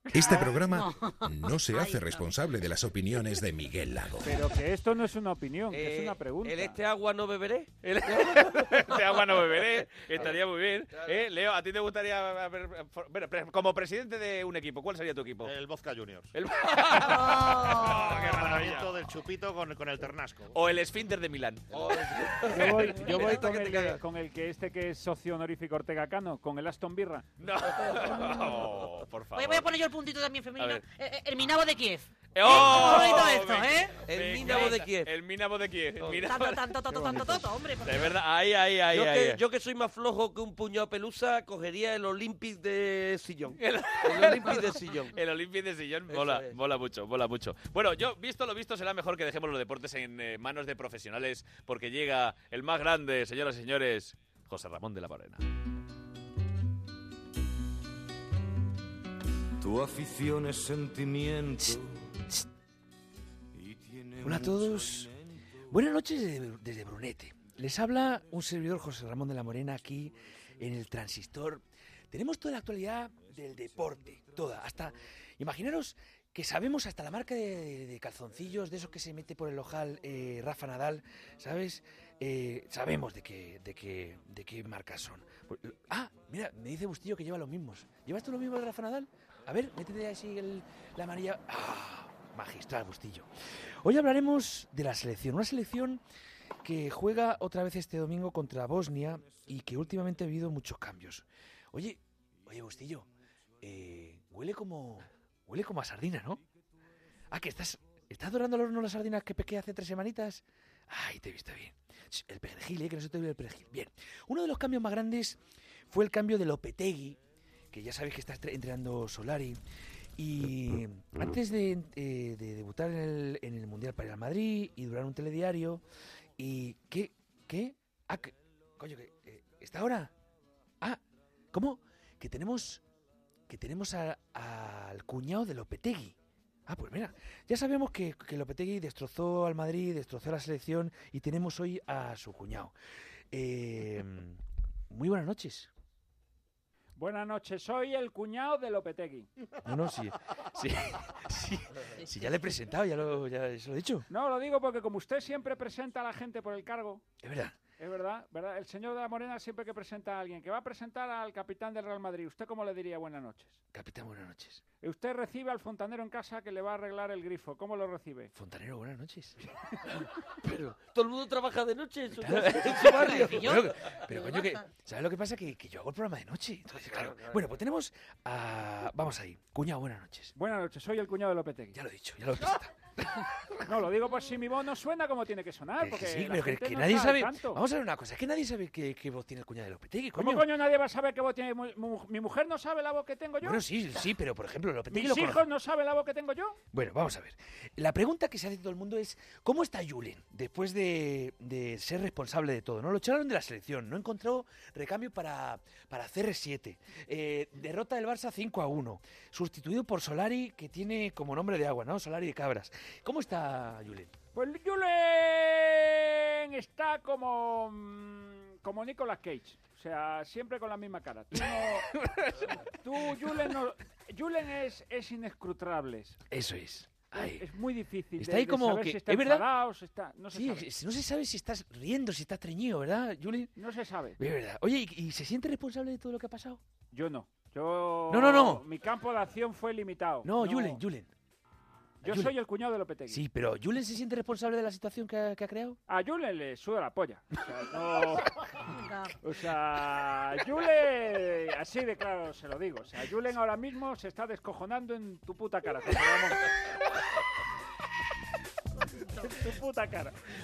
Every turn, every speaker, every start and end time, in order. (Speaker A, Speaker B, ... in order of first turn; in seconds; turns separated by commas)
Speaker A: 0.1-4.4, Speaker B: 0.1-2.3, Speaker C: 4.2-6.8, Speaker D: 5.7-9.1, Speaker E: 7.8-15.5, Speaker D: 9.8-10.4, Speaker F: 15.4-16.3, Speaker E: 16.3-18.9, Speaker D: 16.7-17.1, Speaker F: 17.2-20.6, Speaker E: 20.5-21.7, Speaker D: 21.7-24.0, Speaker C: 22.5-27.2, Speaker E: 22.6-23.0, Speaker B: 22.9-23.4, Speaker E: 27.4-29.7, Speaker B: 29.3-34.0, Speaker E: 30.6-30.8, Speaker E: 32.3-39.4, Speaker D: 32.8-33.1, Speaker D: 34.0-35.1, Speaker D: 36.0-36.2, Speaker B: 36.2-38.1, Speaker D: 38.9-45.1, Speaker E: 43.6-55.4, Speaker D: 46.1-46.5, Speaker G: 64.2-65.1, Speaker G: 65.7-93.3, Speaker G: 93.8-96.0, Speaker G: 96.6-103.1, Speaker G: 103.6-106.4, Speaker G: 107.3-115.4, Speaker G: 115.9-117.2, Speaker G: 117.7-119.6, Speaker G: 120.2-125.8, Speaker G: 126.4-130.1, Speaker G: 131.5-132.8, Speaker G: 133.5-136.1, Speaker G: 136.7-142.7, Speaker G: 143.3-144.3, Speaker G: 144.9-145.7, Speaker C: 147.0-149.3, Speaker G: 149.7-154.0, Speaker C: 154.1-157.0, Speaker G: 157.2-157.5, Speaker C: 157.8-163.6, Speaker G: 163.7-164.6, Speaker C: 164.8-168.3, Speaker G: 168.3-169.3, Speaker D: 170.4-173.4, Speaker G: 172.2-180.3, Speaker B: 173.0-174.6, Speaker D: 176.7-177.5, Speaker C: 180.3-181.8, Speaker G: 181.7-182.7, Speaker C: 183.6-187.6, Speaker G: 185.8-190.5, Speaker C: 190.1-193.6, Speaker G: 193.4-195.4, Speaker C: 194.9-196.6, Speaker G: 196.7-214.1, Speaker C: 214.3-221.9, Speaker C: 222.6-226.2, Speaker G: 226.3-227.4, Speaker C: 227.1-230.7, Speaker G: 228.2-229.4, Speaker G: 230.3-233.5, Speaker C: 233.6-234.2, Speaker G: 234.2-236.6, Speaker C: 236.9-240.8, Speaker G: 238.1-238.6, Speaker G: 240.2-241.1, Speaker C: 242.0-243.2, Speaker G: 242.1-242.3, Speaker G: 243.1-245.8, Speaker C: 245.9-248.3, Speaker B: 248.7-249.2, Speaker C: 249.2-256.5, Speaker C: 259.2-260.1